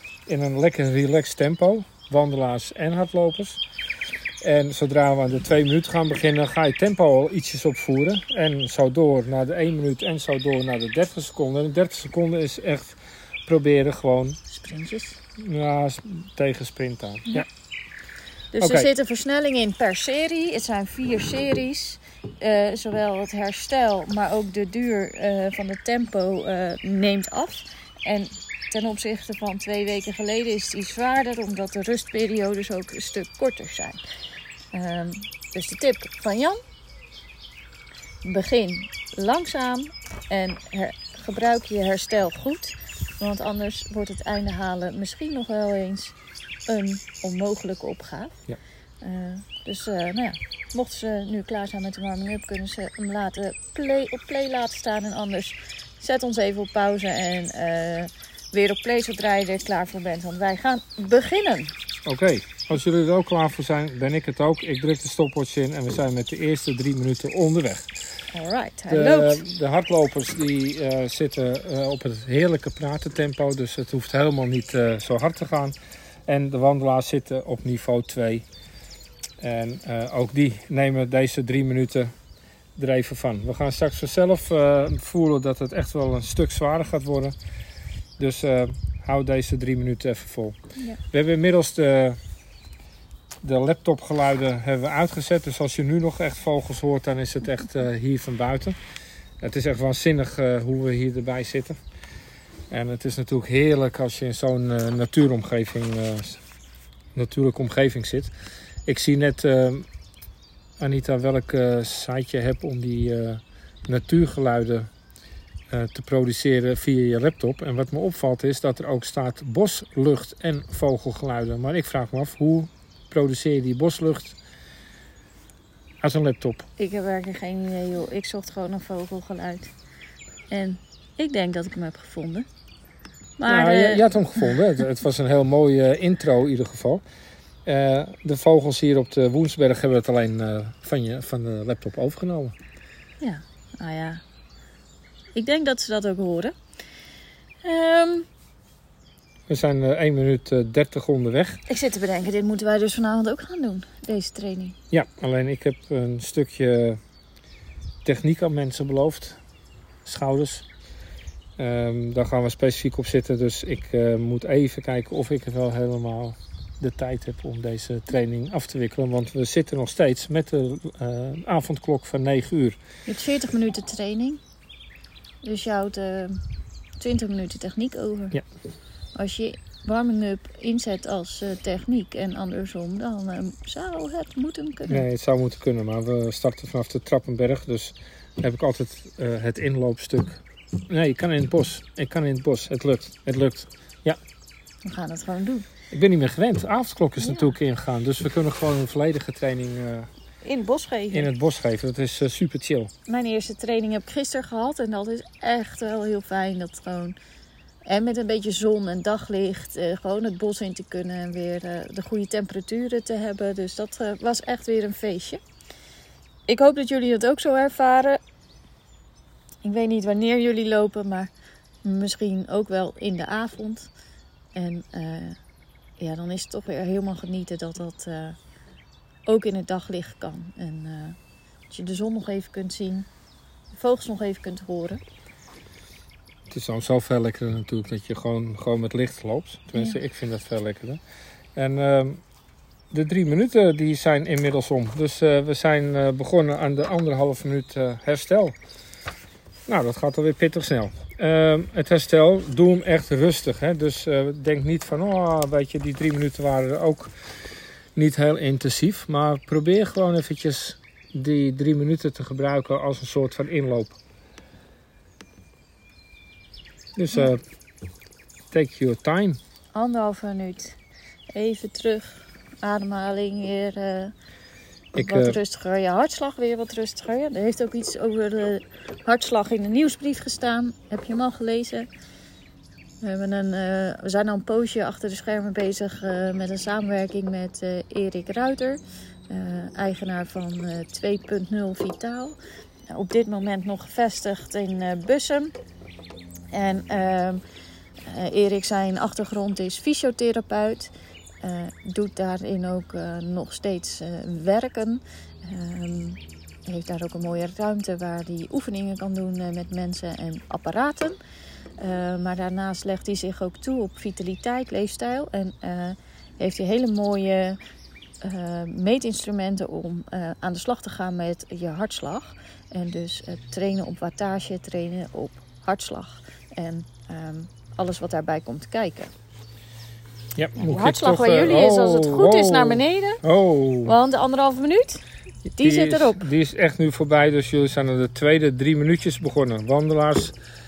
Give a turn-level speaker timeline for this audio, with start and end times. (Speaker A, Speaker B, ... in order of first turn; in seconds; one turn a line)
Speaker A: 0.3-3.6
Speaker A: 4.4-12.9
Speaker A: 13.5-14.4
Speaker B: 14.5-15.2
Speaker A: 15.4-17.5
Speaker B: 18.5-34.0
Speaker A: 18.6-18.9
Speaker B: 34.7-36.6
Speaker B: 38.2-46.1
Speaker B: 46.7-48.4
Speaker B: 49.0-61.7
Speaker A: 62.0-67.9
Speaker B: 68.3-69.4
Speaker A: 68.9-75.8
Speaker A: 76.3-78.5
Speaker A: 79.4-82.1
Speaker A: 82.8-87.3
Speaker A: 88.2-90.6
Speaker A: 91.1-92.2
Speaker A: 93.4-98.8
Speaker A: 99.4-101.8
Speaker A: 102.7-106.4
Speaker A: 107.2-108.3
Speaker A: 108.9-109.9
Speaker A: 110.8-114.9
Speaker A: 115.7-124.4
Speaker A: 126.0-126.7
Speaker B: 126.8-129.7
Speaker B: 130.5-132.5
Speaker B: 133.4-134.6
Speaker A: 133.5-137.0
Speaker A: 137.7-142.6
Speaker B: 143.2-144.2
Speaker B: 145.3-146.5
Speaker B: 147.6-148.3
Speaker A: 149.5-151.6
Speaker B: 151.7-154.8
Speaker A: 154.9-157.0
Speaker A: 158.0-159.4
Speaker A: 160.1-160.7
Speaker A: 161.6-172.8
Speaker B: 173.1-174.4
Speaker B: 175.4-176.4
Speaker B: 177.0-178.4
Speaker B: 179.2-185.1
Speaker A: 184.9-194.2
Speaker B: 194.8-195.7
Speaker A: 195.9-200.1
Speaker B: 197.2-197.5
Speaker B: 200.4-201.3
Speaker A: 201.1-202.9
Speaker B: 203.1-207.2
Speaker B: 207.9-215.4
Speaker B: 216.5-218.2
Speaker B: 219.6-221.3
Speaker B: 221.8-223.9
Speaker B: 224.6-225.4
Speaker B: 226.0-228.4
Speaker B: 229.3-231.2
Speaker B: 231.7-233.1
Speaker B: 233.7-235.0
Speaker A: 236.5-241.0
Speaker A: 241.6-242.2
Speaker A: 242.9-248.6
Speaker A: 249.7-257.1
Speaker A: 257.9-264.0
Speaker A: 266.9-267.4
Speaker A: 268.5-269.4
Speaker B: 269.8-270.8
Speaker B: 271.4-274.1
Speaker B: 274.9-281.9
Speaker A: 274.9-275.4
Speaker B: 283.0-292.4
Speaker B: 292.9-295.5
Speaker B: 296.5-297.4
Speaker B: 298.1-300.9
Speaker B: 301.4-311.2
Speaker B: 311.8-317.6
Speaker B: 318.2-329.1
Speaker A: 330.4-333.9
Speaker B: 330.7-333.2
Speaker B: 333.9-335.0
Speaker A: 335.5-340.4
Speaker B: 335.6-336.2